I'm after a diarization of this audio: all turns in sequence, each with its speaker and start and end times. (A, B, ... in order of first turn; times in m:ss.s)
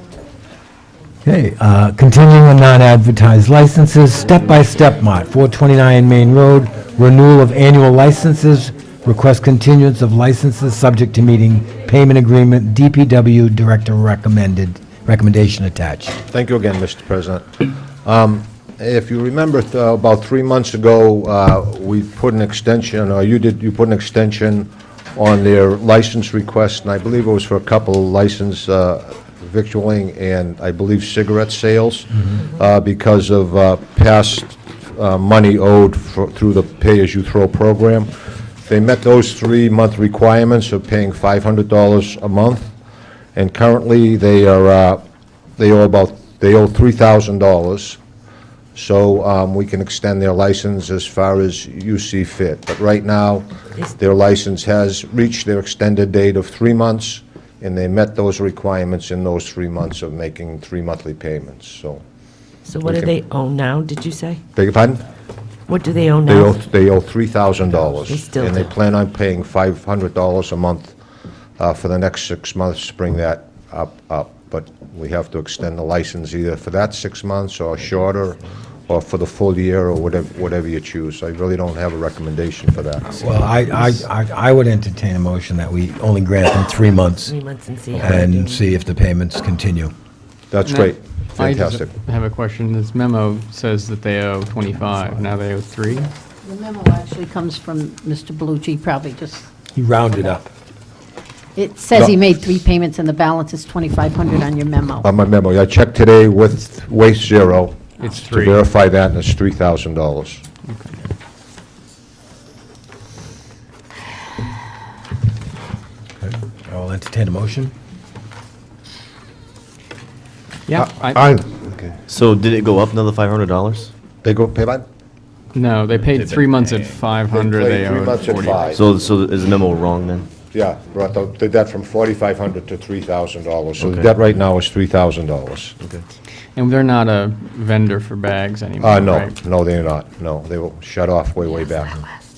0:01.2-0:16.2 A
0:16.3-0:17.5 B
0:18.0-0:38.1 B
0:38.6-0:42.7 B
0:43.4-0:48.0 B
0:48.8-1:02.0 B
1:02.6-1:04.4 C
1:02.8-1:03.1 B
1:04.6-1:05.0 B
1:05.7-1:06.6 C
1:06.2-1:11.0 B
1:08.1-1:08.7 C
1:11.6-1:23.5 B
1:23.2-1:27.4 A
1:27.3-1:28.6 C
1:28.0-1:29.9 A
1:30.5-1:32.0 B
1:30.6-1:36.1 D
1:36.4-1:39.5 E
1:39.8-1:40.5 A
1:41.6-1:45.1 E
1:45.0-1:50.4 B
1:48.0-1:48.7 D
1:50.7-1:50.9 D
1:56.2-1:57.7 A
2:00.7-2:01.2 D
2:00.7-2:03.9 F
2:04.2-2:04.9 B
2:05.5-2:08.8 D
2:06.0-2:07.0 F
2:07.2-2:08.8 B
2:08.7-2:10.3 F
2:10.5-2:15.8 B
2:13.8-2:14.4 F
2:15.8-2:16.0 F
2:16.6-2:19.4 D
2:18.8-2:22.0 B
2:21.4-2:22.1 C